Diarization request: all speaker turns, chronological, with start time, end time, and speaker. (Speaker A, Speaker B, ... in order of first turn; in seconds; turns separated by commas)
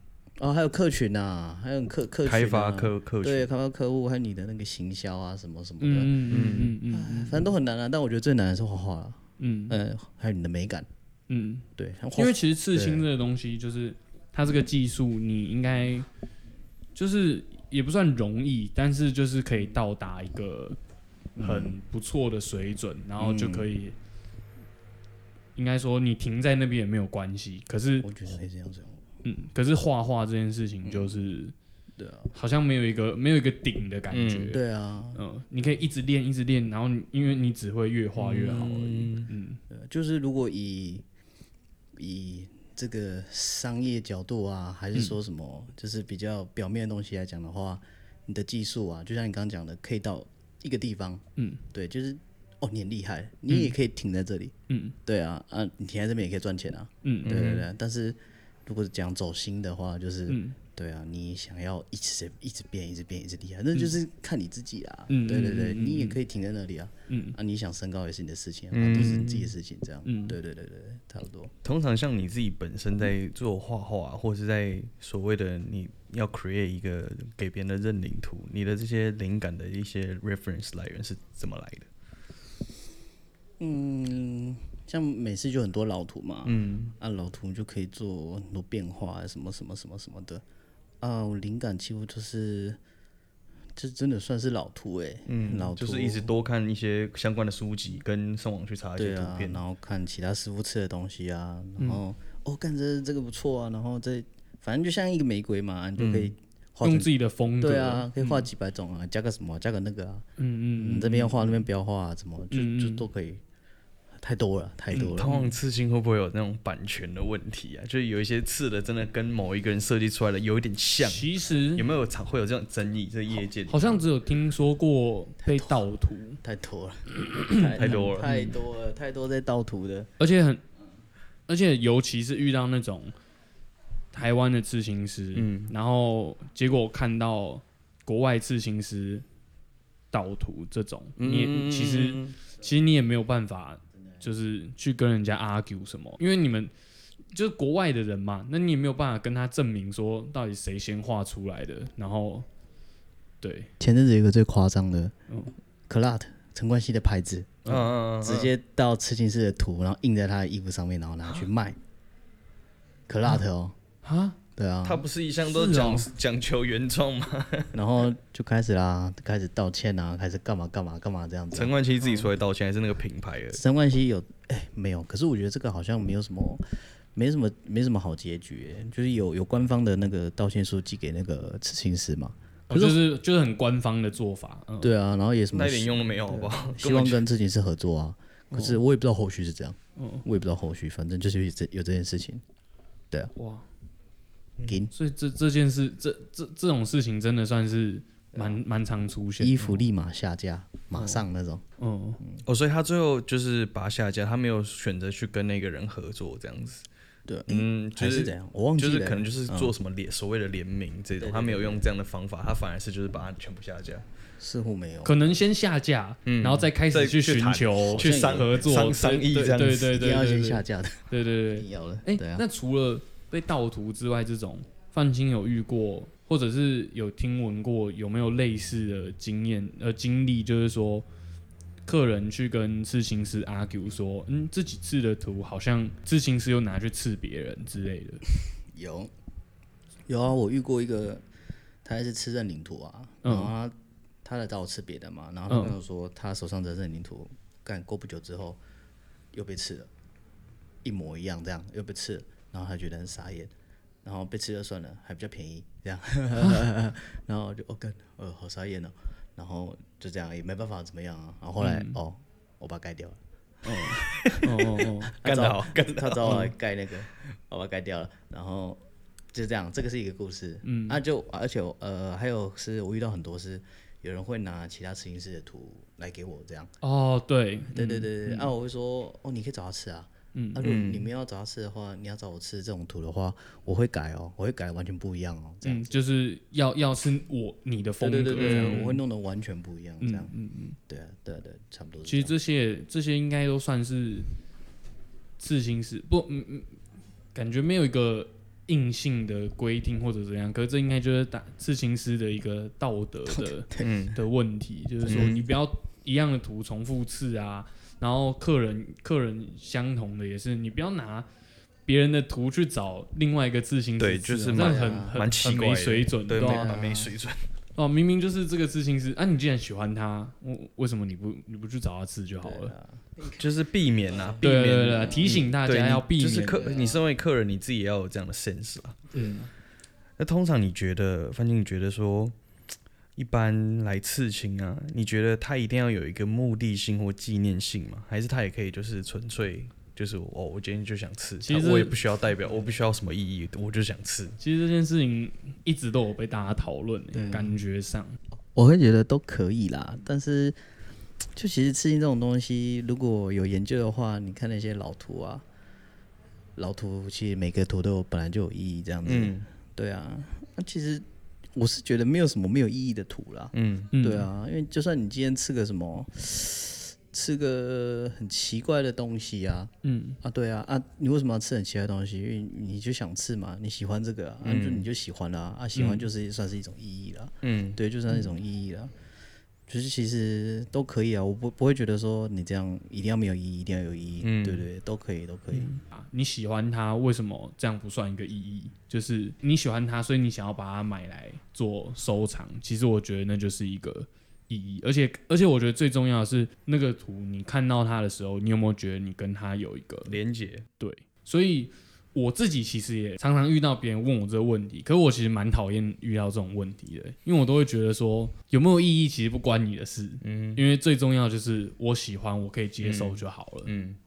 Speaker A: 0.4-10.9, Speaker B: 2.2-3.5, Speaker C: 5.8-7.5, Speaker B: 6.3-6.8, Speaker C: 9.4-9.8, Speaker C: 11.3-16.1, Speaker A: 11.8-13.1, Speaker C: 16.9-20.8, Speaker A: 21.4-21.8, Speaker C: 21.4-24.0, Speaker A: 23.2-23.7, Speaker C: 25.6-28.1, Speaker A: 28.0-29.0, Speaker C: 29.2-31.5, Speaker A: 30.8-31.1, Speaker A: 32.0-32.3, Speaker C: 32.3-34.6, Speaker B: 34.1-34.5, Speaker A: 34.5-35.2, Speaker C: 35.1-39.6, Speaker B: 38.2-39.3, Speaker A: 39.7-41.0, Speaker A: 42.0-54.5, Speaker C: 51.4-51.6, Speaker C: 53.5-53.7, Speaker C: 54.7-55.0, Speaker A: 55.1-71.5, Speaker C: 57.0-57.5, Speaker B: 57.3-57.7, Speaker C: 60.3-60.6, Speaker C: 65.1-66.2, Speaker C: 67.1-67.4, Speaker B: 68.7-69.5, Speaker C: 70.0-70.4, Speaker B: 71.6-81.9, Speaker A: 83.6-90.4, Speaker B: 86.5-87.0, Speaker A: 91.0-92.8, Speaker A: 93.8-96.3, Speaker B: 95.3-99.6, Speaker A: 99.0-110.2, Speaker B: 106.0-106.3, Speaker C: 106.8-108.5, Speaker C: 110.4-111.6, Speaker A: 110.8-113.4, Speaker C: 112.5-113.0, Speaker A: 114.2-115.3, Speaker C: 115.0-115.5, Speaker B: 115.0-124.0, Speaker C: 121.0-121.9, Speaker C: 123.7-126.4, Speaker A: 125.4-125.8, Speaker A: 126.4-130.1, Speaker C: 127.2-128.6, Speaker B: 127.8-128.3, Speaker C: 130.2-130.6, Speaker C: 131.5-133.1, Speaker C: 134.1-139.2, Speaker B: 135.3-135.7, Speaker C: 140.1-146.7, Speaker B: 141.2-142.4, Speaker C: 147.3-152.5, Speaker C: 153.4-153.7, Speaker A: 153.8-155.1, Speaker A: 155.9-157.7, Speaker B: 157.7-158.5, Speaker A: 158.2-161.8, Speaker A: 163.1-163.8, Speaker C: 164.0-164.4, Speaker A: 164.6-165.1, Speaker B: 164.8-167.8, Speaker C: 165.5-166.1, Speaker A: 167.7-171.7, Speaker B: 171.5-173.6, Speaker A: 173.5-176.6, Speaker A: 177.2-183.0, Speaker C: 182.7-184.9, Speaker A: 184.8-192.4, Speaker B: 185.5-187.2, Speaker C: 188.5-188.8, Speaker C: 190.0-190.2, Speaker C: 193.4-193.7, Speaker A: 194.7-194.9, Speaker C: 194.9-199.8, Speaker A: 198.3-198.6, Speaker A: 199.4-201.6, Speaker C: 200.9-201.2, Speaker C: 201.8-202.2, Speaker B: 202.4-206.8, Speaker A: 207.3-209.7, Speaker B: 207.5-214.1, Speaker A: 211.2-211.9, Speaker A: 214.4-215.2, Speaker C: 215.0-231.1, Speaker B: 216.3-220.0, Speaker A: 217.9-218.6, Speaker A: 219.9-222.5, Speaker C: 231.8-238.2, Speaker A: 238.7-239.1, Speaker A: 240.1-241.2, Speaker A: 241.8-248.6, Speaker C: 243.2-243.5, Speaker C: 245.5-245.8, Speaker A: 249.3-249.9, Speaker A: 250.8-253.5, Speaker A: 254.0-263.2, Speaker C: 261.6-262.0, Speaker C: 263.6-265.1, Speaker B: 264.0-264.5, Speaker A: 265.1-268.8, Speaker B: 265.1-266.5, Speaker A: 269.3-276.7, Speaker C: 270.6-271.0, Speaker C: 276.8-278.5, Speaker A: 277.7-285.9, Speaker C: 280.3-280.6, Speaker B: 280.6-281.1, Speaker C: 285.6-289.0, Speaker A: 288.0-290.3, Speaker B: 288.4-288.9, Speaker C: 290.0-290.8, Speaker A: 290.9-292.3, Speaker C: 292.1-294.3, Speaker C: 295.4-296.7, Speaker C: 297.4-311.3, Speaker A: 303.3-304.0, Speaker B: 303.8-304.2, Speaker B: 305.1-305.4, Speaker A: 305.1-305.4, Speaker C: 311.9-316.8, Speaker B: 314.0-317.4, Speaker A: 314.6-315.2, Speaker A: 316.4-317.1, Speaker C: 317.8-322.7, Speaker A: 322.4-323.5, Speaker B: 323.4-329.1, Speaker A: 324.1-325.4, Speaker C: 324.4-326.6, Speaker A: 326.5-327.0, Speaker A: 329.2-329.5, Speaker B: 330.2-332.4, Speaker B: 333.2-344.4, Speaker C: 341.4-342.0, Speaker C: 344.4-348.2, Speaker A: 347.1-347.6, Speaker A: 348.6-350.6, Speaker A: 351.4-355.4, Speaker A: 356.6-378.9, Speaker B: 359.1-359.5, Speaker B: 363.5-363.9, Speaker C: 363.9-364.3, Speaker C: 369.8-370.2, Speaker B: 374.4-374.9, Speaker C: 375.8-376.1, Speaker B: 377.4-377.8, Speaker A: 379.7-385.7, Speaker B: 384.2-384.6, Speaker C: 385.5-400.2, Speaker B: 400.1-400.6, Speaker C: 400.8-413.7, Speaker B: 410.2-410.6, Speaker B: 412.8-414.0